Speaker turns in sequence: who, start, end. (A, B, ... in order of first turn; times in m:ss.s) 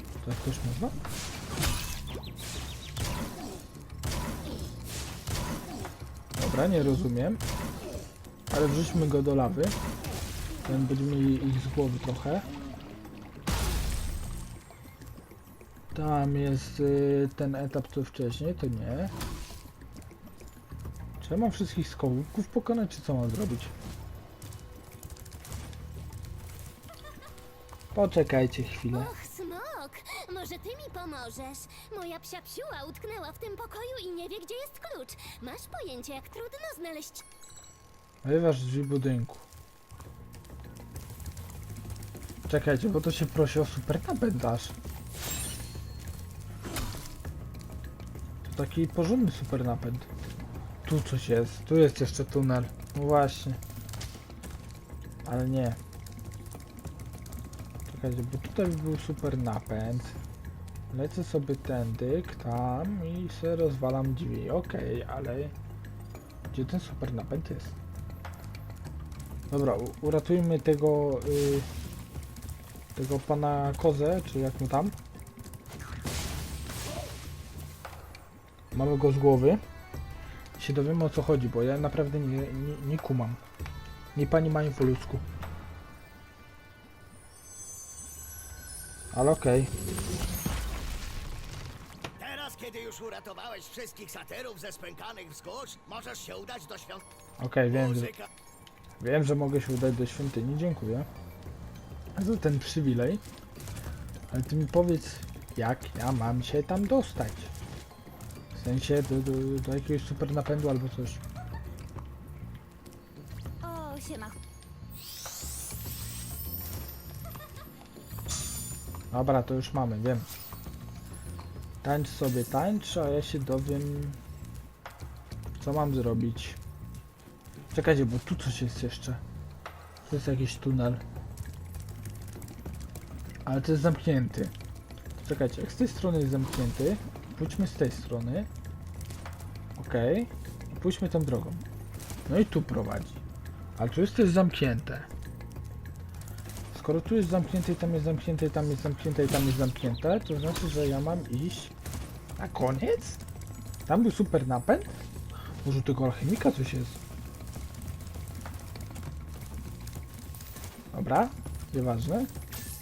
0:00.2-0:01.0 A
0:06.4-0:07.4 A
0:08.5-0:09.8 A
0:10.6-0:12.5 A
0:15.9-0:19.1 A
0:21.2-0:23.7 A
0:27.9-0:29.1 A
0:28.9-0:37.2 B
0:38.2-0:39.5 A
0:42.5-0:44.7 A
0:48.4-0:50.1 A
0:50.8-0:53.6 A
0:55.2-0:55.8 A
0:57.9-1:00.2 A
1:00.9-1:05.5 A
1:06.5-1:07.8 A
1:09.5-1:11.7 A
1:12.9-1:14.9 A
1:18.7-1:19.6 A
1:20.6-1:23.4 A
1:24.1-1:25.2 A
1:29.1-1:29.7 A
1:32.2-1:37.0 C
1:37.4-1:38.1 A
1:37.7-1:38.3 C
1:39.0-1:41.1 A
1:42.1-1:43.2 A
1:44.3-1:47.5 A
1:48.5-1:51.2 A
1:53.6-1:54.4 B
1:59.1-2:00.3 A
2:01.8-2:04.2 A
2:05.6-2:06.6 A
2:07.7-2:09.2 A
2:10.1-2:11.0 A
2:13.4-2:14.5 A
2:15.2-2:18.5 A
2:19.8-2:21.6 A
2:22.3-2:23.2 A
2:23.8-2:25.1 A
2:26.7-2:31.7 A
2:32.4-2:33.2 A
2:33.8-2:34.9 A
2:35.6-2:37.0 A
2:40.9-2:42.3 A